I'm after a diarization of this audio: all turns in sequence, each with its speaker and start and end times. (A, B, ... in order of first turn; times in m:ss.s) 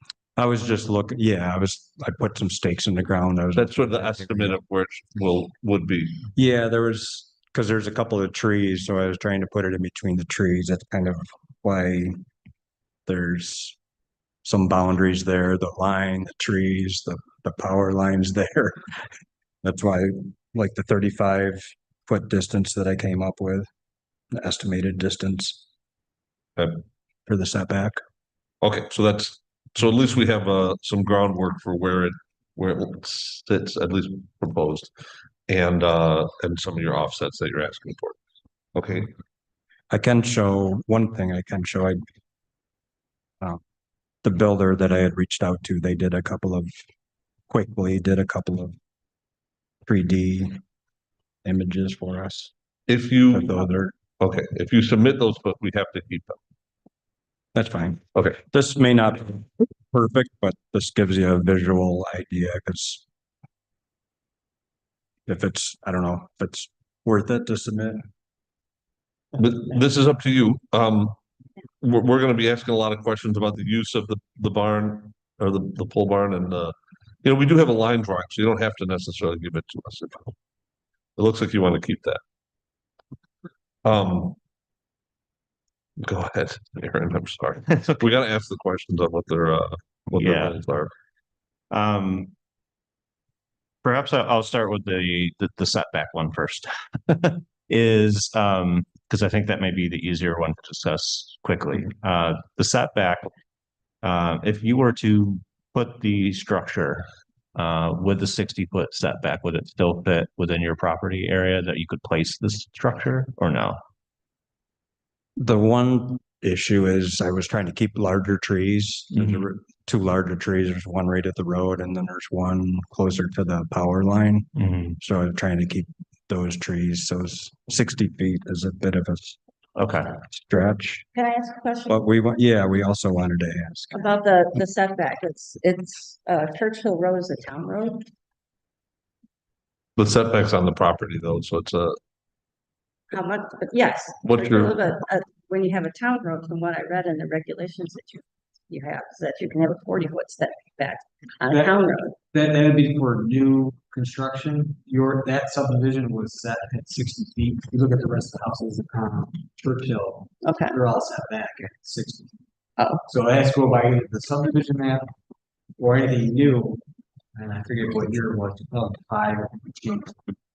0:00.4-0:04.6 A
0:03.5-0:06.3 B
0:06.4-0:12.2 A
0:13.1-0:13.8 A
0:14.4-0:18.8 A
0:19.6-0:23.7 A
0:24.3-0:25.6 A
0:26.6-0:26.8 B
0:27.3-0:28.0 A
0:28.6-0:34.9 B
0:35.5-0:38.2 B
0:38.8-0:39.1 B
0:39.9-0:42.0 A
0:44.2-0:46.7 A
0:47.5-0:48.8 A
0:49.8-0:50.6 A
0:51.4-0:52.5 A
0:52.9-0:53.6 B
0:53.3-0:54.0 A
0:54.2-0:56.4 B
0:57.6-1:03.0 A
1:05.3-1:08.0 A
1:09.4-1:11.2 B
1:11.8-1:20.4 B
1:21.2-1:22.2 B
1:23.8-1:24.4 B
1:26.0-1:30.9 B
1:30.2-1:30.6 C
1:31.7-1:32.3 C
1:33.8-1:43.3 C
1:44.0-1:53.8 C
1:55.4-2:09.4 A
1:59.1-1:59.4 C
2:04.6-2:05.0 C
2:09.8-2:10.2 C
2:10.3-2:11.1 A
2:11.2-2:12.0 D
2:11.9-2:14.1 A
2:13.9-2:18.0 D
2:20.0-2:22.0 B
2:23.1-2:32.2 D
2:24.2-2:24.8 B
2:31.5-2:42.3 E
2:40.4-2:40.8 D
2:43.1-2:45.1 E
2:45.8-2:46.8 E
2:47.4-2:50.3 E